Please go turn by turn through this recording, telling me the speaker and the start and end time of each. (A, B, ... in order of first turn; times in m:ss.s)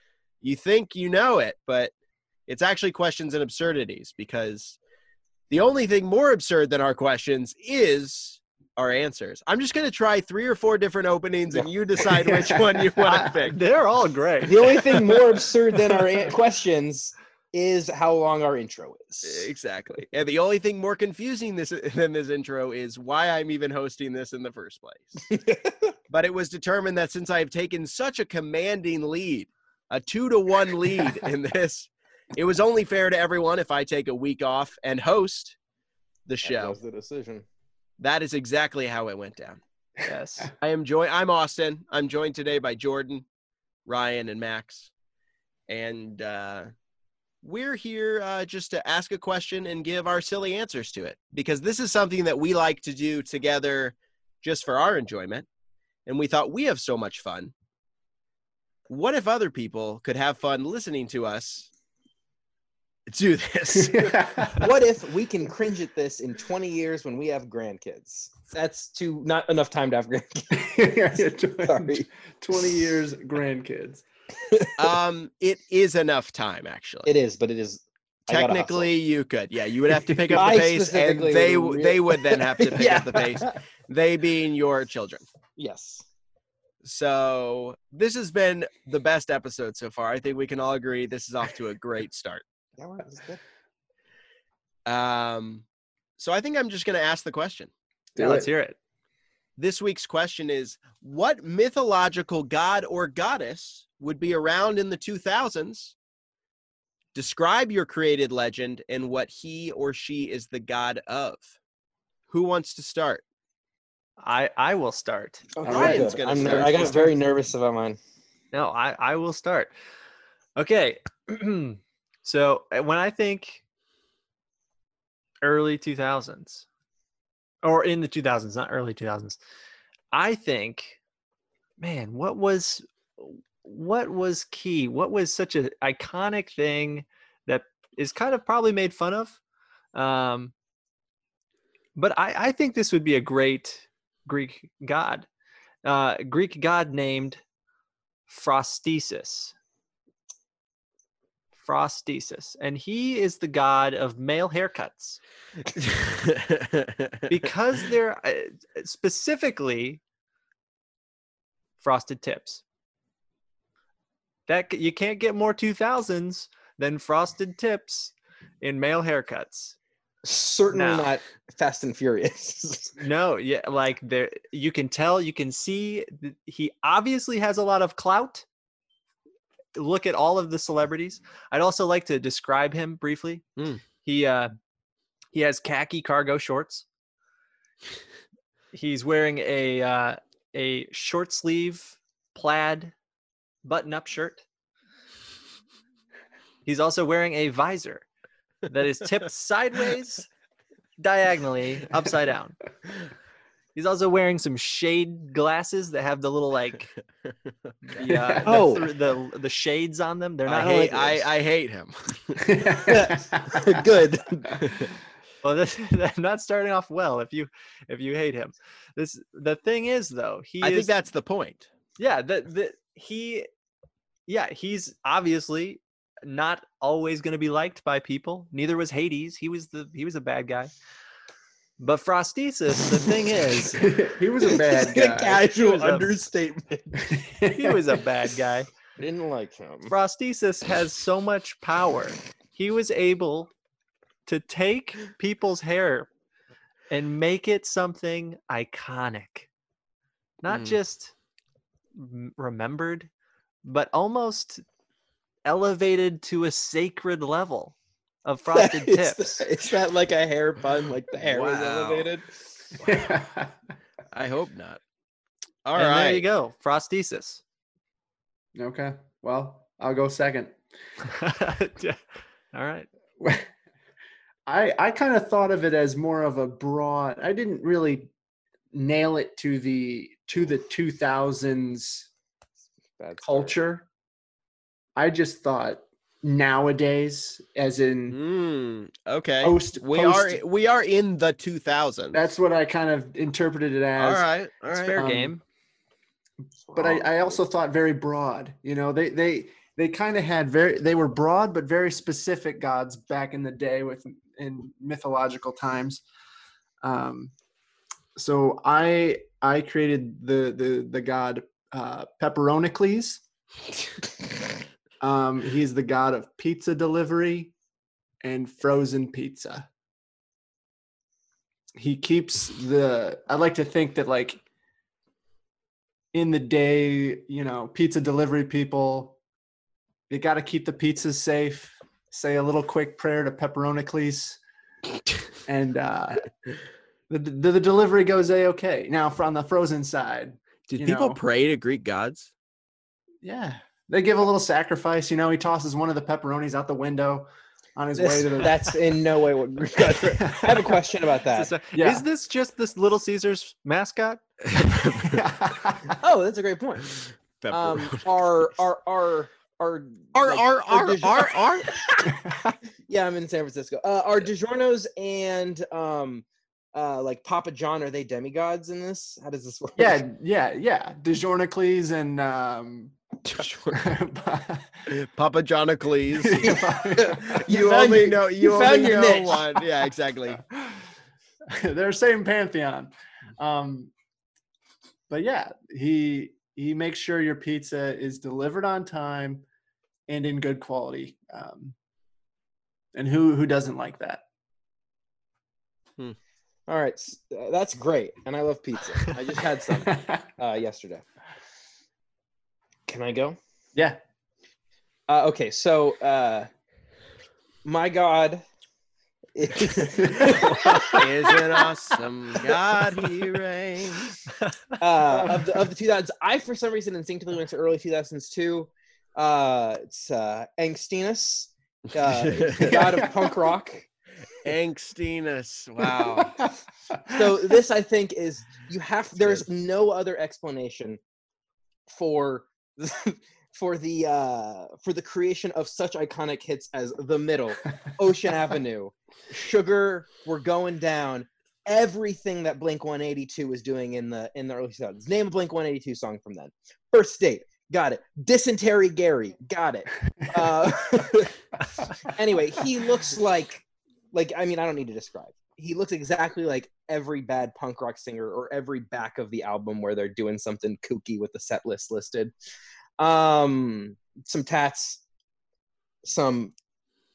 0:00.4-0:01.9 A
0:02.5-0:04.8 A
0:05.5-0:13.6 A
0:12.1-0:13.3 B
0:13.1-0:14.7 C
0:14.4-0:19.5 D
0:19.2-0:25.2 A
0:25.3-0:25.8 D
0:26.1-0:35.6 A
0:36.3-0:36.8 A
0:36.4-0:37.4 D
0:38.0-0:39.6 A
0:40.0-0:40.5 C
0:40.6-0:43.2 A
0:43.8-0:44.9 A
0:45.7-0:46.7 A
0:47.4-0:55.4 A
0:56.0-0:57.5 A
0:58.9-1:01.7 A
1:03.1-1:04.3 A
1:03.7-1:04.7 B
1:04.6-1:12.1 D
1:10.5-1:14.0 B
1:14.8-1:17.1 A
1:17.0-1:18.9 D
1:18.3-1:25.3 A
1:20.0-1:20.6 B
1:20.3-1:23.6 D
1:25.6-1:26.0 D
1:26.8-1:32.4 A
1:32.8-1:33.4 D
1:34.8-1:35.6 A
1:36.2-1:37.7 A
1:38.1-1:38.5 B
1:38.2-1:38.8 C
1:39.6-1:46.0 A
1:47.1-1:51.5 A
1:52.3-1:53.2 A
1:54.2-1:55.5 C
1:55.6-1:58.0 D
1:55.6-1:57.1 B
1:55.6-1:57.0 A
1:58.5-1:59.7 C
2:00.6-2:03.6 C
2:05.4-2:06.6 C
2:07.6-2:09.4 C
2:10.1-2:11.0 C
2:11.8-2:19.4 C
2:19.9-2:20.5 C
2:22.0-2:25.3 C
2:25.8-2:27.4 C
2:28.3-2:29.5 C
2:31.6-2:35.2 C
2:35.8-2:36.9 A
2:37.3-2:40.0 C
2:41.8-2:42.6 C
2:44.5-2:49.7 C
2:50.2-2:53.0 D
2:50.7-2:51.1 C
2:53.0-2:58.4 C
2:59.8-3:04.5 C
3:05.3-3:06.8 C
3:08.7-3:12.9 C
3:13.6-3:14.4 C
3:16.6-3:18.0 C
3:18.7-3:20.3 C
3:21.0-3:22.6 C
3:23.7-3:26.9 C
3:28.0-3:31.3 C
3:28.0-3:28.4 B
3:28.4-3:28.9 D
3:30.4-3:32.5 A
3:32.5-3:33.4 B
3:32.9-3:34.6 D
3:35.4-3:40.9 C
3:40.6-3:41.7 A
3:42.0-3:43.5 C
3:44.3-3:50.7 C
3:51.8-3:53.8 C
3:53.7-3:55.4 B
3:54.4-3:57.1 D
3:55.3-3:56.1 C
3:57.1-3:57.9 B
3:57.5-3:58.7 C
3:59.0-3:59.9 D
3:59.9-4:03.5 C
4:04.2-4:06.1 C
4:06.9-4:09.5 C
4:10.4-4:11.1 C
4:10.5-4:10.8 A
4:12.0-4:13.1 C
4:13.6-4:14.6 C
4:15.4-4:19.4 C
4:18.5-4:22.3 D
4:21.2-4:22.1 A
4:22.8-4:23.1 A
4:22.8-4:23.5 B
4:24.1-4:24.8 A
4:25.6-4:26.2 A
4:25.7-4:27.4 C
4:28.6-4:30.5 B
4:31.0-4:32.0 C
4:32.5-4:32.9 C
4:33.2-4:33.5 B
4:34.5-4:38.1 B
4:38.7-4:42.1 B
4:43.0-4:43.6 D
4:43.2-4:43.9 B
4:45.0-4:48.2 B
4:48.1-4:52.2 A
4:49.4-4:50.4 B
4:52.1-4:54.2 B
4:54.0-4:55.0 A
4:54.7-4:55.4 C
4:54.9-4:55.4 B
4:56.6-4:57.4 D
4:56.7-5:06.0 B
5:06.8-5:07.3 B
5:08.2-5:13.2 B
5:15.0-5:17.5 B
5:18.2-5:19.7 B
5:21.7-5:24.4 B
5:26.1-5:29.2 B
5:30.1-5:34.4 B
5:35.5-5:36.3 B
5:37.1-5:41.2 B
5:40.7-5:42.3 A
5:43.2-5:48.7 B
5:48.0-5:51.5 D
5:50.1-5:50.7 B
5:51.3-5:54.2 C
5:51.7-5:52.0 B
5:54.5-5:55.2 A
5:55.0-5:56.0 B
5:56.0-5:57.0 D
5:57.4-5:58.1 A
5:57.5-6:02.1 D
6:00.1-6:01.7 A
6:02.1-6:02.5 B
6:02.8-6:10.0 D
6:09.8-6:13.0 B
6:13.2-6:13.8 A
6:13.7-6:14.7 B
6:14.9-6:16.6 A
6:16.2-6:18.1 B
6:16.4-6:19.4 D
6:17.3-6:20.4 A
6:18.7-6:19.6 B
6:20.4-6:20.8 B
6:21.6-6:23.9 B
6:25.1-6:29.4 B
6:30.1-6:31.8 B
6:32.9-6:34.2 B
6:36.7-6:41.0 D
6:39.8-6:40.2 B
6:42.9-6:43.4 D
6:45.1-6:46.5 D
6:47.6-6:48.4 D
6:49.4-6:51.0 D
6:50.8-6:54.2 A
6:54.4-6:54.8 C
6:54.8-7:03.8 D
6:55.1-6:55.5 B
7:02.0-7:02.8 A
7:02.7-7:03.4 B
7:04.4-7:06.4 A
7:06.3-7:07.0 B
7:07.1-7:11.0 D
7:11.9-7:31.4 D
7:32.1-7:42.3 D
7:43.0-7:45.0 D
7:46.0-7:46.5 D